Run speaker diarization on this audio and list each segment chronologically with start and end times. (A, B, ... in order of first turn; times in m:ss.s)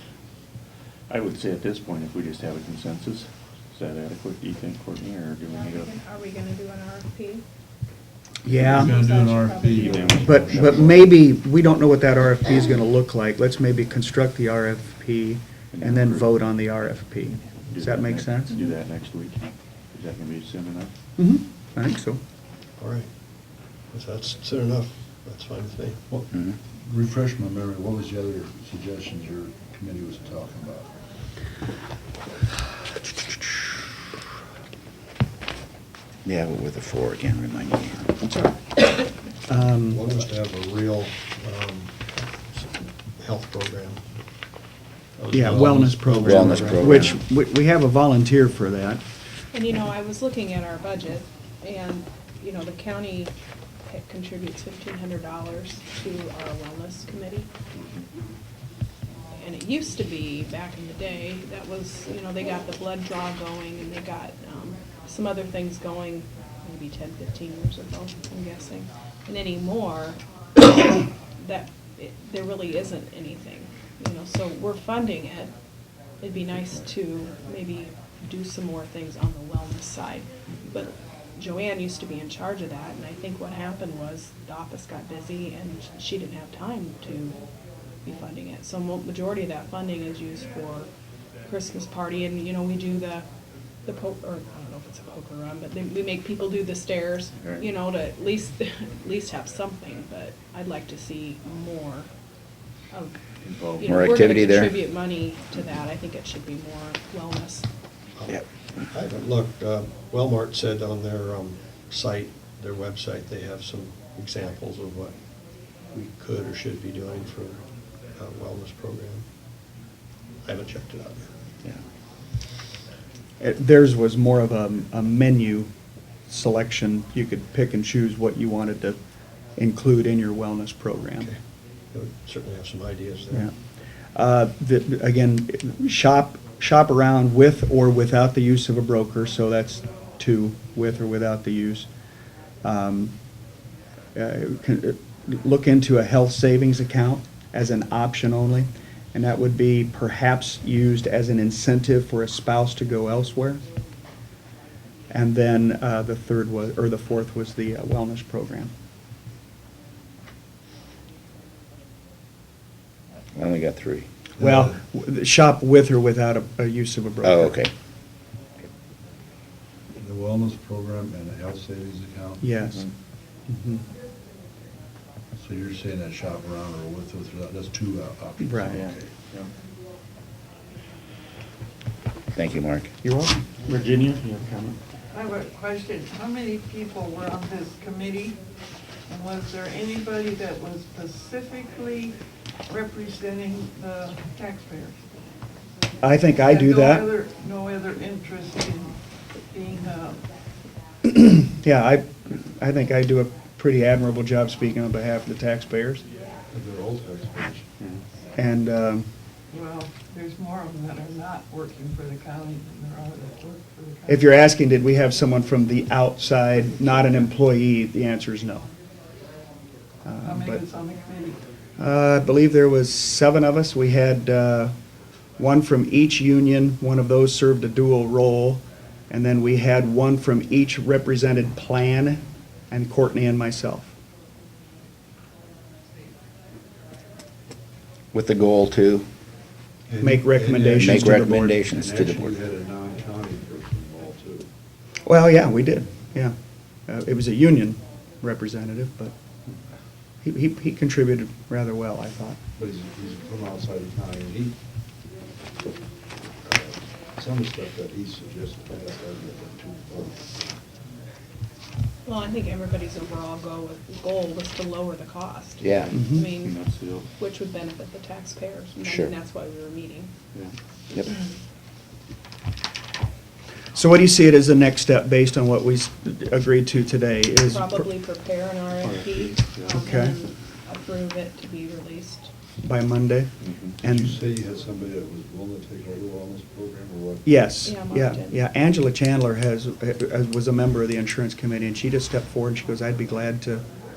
0:01.1-0:05.9 A
0:05.5-0:07.4 B
0:08.4-0:09.0 C
0:08.5-0:11.0 D
0:08.7-0:10.6 B
0:09.8-0:10.9 A
0:10.2-0:18.5 C
0:15.7-0:16.2 A
0:17.6-0:20.9 A
0:21.2-0:22.2 C
0:22.8-0:23.1 E
0:23.9-0:26.3 E
0:26.1-0:30.9 D
0:36.2-0:38.1 F
0:39.5-0:40.9 C
0:39.5-0:44.1 E
0:45.2-0:47.0 E
0:45.3-0:49.0 C
0:46.2-0:47.2 F
0:49.5-0:53.3 B
0:53.8-0:57.5 B
0:57.7-0:58.0 A
0:59.4-1:15.5 B
1:16.2-1:27.4 B
1:28.0-1:30.9 B
1:31.4-1:33.2 B
1:33.8-1:42.1 B
1:37.4-1:37.6 A
1:43.4-1:44.1 A
1:43.8-1:47.7 B
1:43.9-1:44.7 F
1:48.2-1:55.2 E
1:55.9-1:57.6 E
1:58.1-1:59.2 E
2:00.4-2:01.3 E
2:03.4-2:05.7 C
2:06.2-2:09.0 C
2:09.6-2:11.3 C
2:11.9-2:13.5 E
2:14.1-2:21.9 C
2:22.6-2:23.2 C
2:24.1-2:33.6 C
2:35.1-2:38.7 C
2:43.4-2:44.0 F
2:44.4-2:44.8 D
2:44.4-2:47.6 C
2:47.2-2:47.7 F
2:50.0-2:52.5 D
2:52.4-2:52.8 C
2:52.6-2:52.9 A
2:53.5-2:53.8 C
2:55.4-2:59.1 D
2:58.4-2:58.7 C
2:58.7-2:59.5 A
3:02.3-3:02.9 F
3:03.0-3:03.4 C
3:03.6-3:04.8 A
3:05.1-3:08.4 G
3:09.1-3:12.2 G
3:12.7-3:15.0 G
3:16.0-3:17.0 C
3:16.4-3:19.0 G
3:19.5-3:20.2 G
3:21.0-3:26.0 C
3:26.5-3:27.7 D
3:28.3-3:29.1 C
3:29.5-3:34.3 G
3:34.1-3:38.7 C
3:40.0-3:40.6 C
3:40.2-3:41.4 G
3:41.8-3:44.7 C
3:45.4-3:53.9 C
3:58.1-3:59.0 F
3:59.9-4:04.5 D
4:00.0-4:01.6 C
4:00.8-4:02.3 F
4:05.0-4:09.2 C
4:10.2-4:12.4 C
4:12.5-4:14.6 D
4:16.4-4:20.5 D
4:22.0-4:26.5 B
4:25.6-4:25.9 F
4:25.7-4:27.1 A
4:25.9-4:26.2 C
4:27.2-4:30.1 B
4:28.8-4:29.1 F
4:33.7-4:37.9 C
4:37.5-4:42.3 B
4:38.8-4:39.8 A
4:39.8-4:40.2 C
4:42.6-4:44.2 C
4:43.4-4:43.8 A
4:43.8-4:47.8 D
4:47.2-4:53.7 C
4:47.6-4:48.3 B